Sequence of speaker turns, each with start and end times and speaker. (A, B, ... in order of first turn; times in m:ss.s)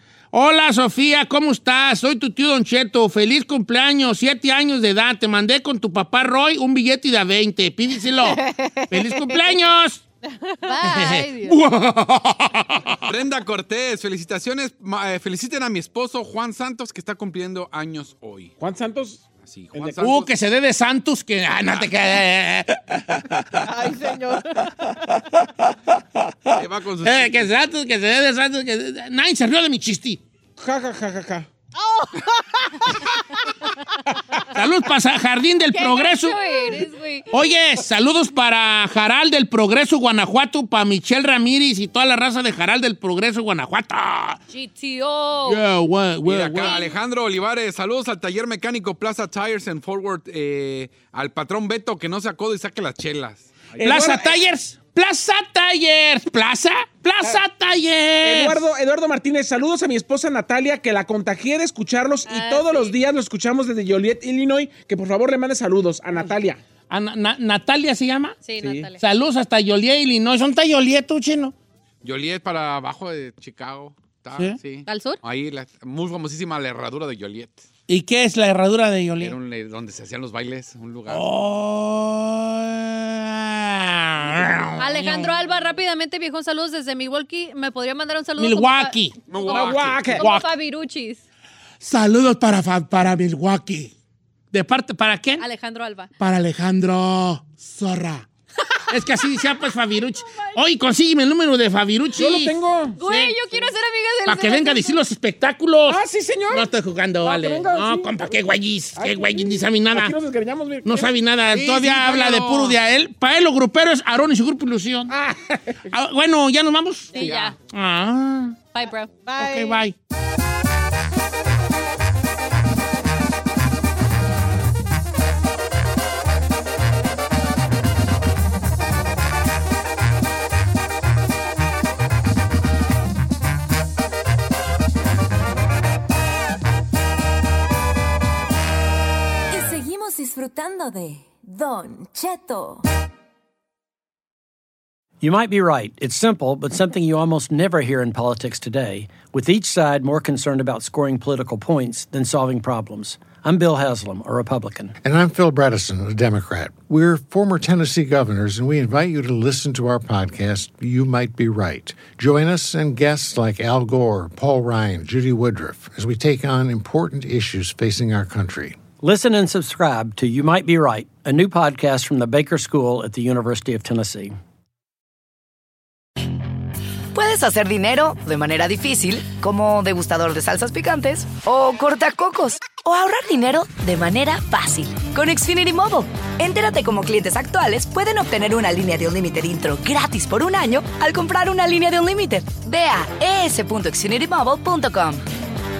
0:00.3-0:10.0 A
0:08.3-0:09.4 B
0:10.6-0:11.6 B
0:10.8-0:13.1 A
0:13.0-0:18.5 C
0:18.6-0:20.0 D
0:19.3-0:20.3 C
0:20.0-0:23.7 A
0:23.6-0:25.0 E
0:26.5-0:30.2 A
0:26.5-0:27.5 C
0:30.6-0:31.5 D
0:31.8-0:33.5 E
0:34.5-0:36.7 A
0:35.7-0:37.3 B
0:37.3-0:44.4 A
0:44.5-0:45.6 B
0:45.4-0:46.8 A
0:46.2-0:53.8 C
0:46.6-0:46.9 B
0:53.7-0:54.4 D
0:53.8-0:58.6 A
0:58.2-1:06.6 D
1:02.3-1:02.9 B
1:06.9-1:08.4 A
1:08.4-1:09.0 B
1:08.6-1:08.9 D
1:09.0-1:11.5 A
1:12.0-1:17.7 C
1:14.8-1:15.2 B
1:17.9-1:19.4 A
1:19.2-1:21.2 C
1:21.1-1:25.3 A
1:24.8-1:31.2 B
1:28.4-1:29.2 A
1:29.3-1:30.2 C
1:29.5-1:30.2 D
1:30.2-1:30.5 A
1:31.8-1:33.9 A
1:34.5-1:35.4 A
1:35.4-1:36.1 B
1:36.2-1:38.2 A
1:38.9-1:43.4 A
1:42.2-1:43.0 D
1:43.0-1:45.0 B
1:44.2-1:50.2 A
1:45.9-1:46.7 D
1:47.2-1:48.4 D
1:48.9-1:51.9 D
1:50.8-1:55.2 A
1:51.6-1:52.7 C
1:55.1-1:55.8 D
1:55.9-1:58.6 A
1:57.1-1:57.5 B
1:57.1-1:57.6 C
1:58.7-1:59.1 B
1:59.2-1:59.8 E
1:59.4-1:59.9 A
2:19.5-2:22.8 F
2:25.2-2:34.9 G
2:35.0-2:48.8 H
2:49.0-2:54.3 G
2:57.1-3:15.2 I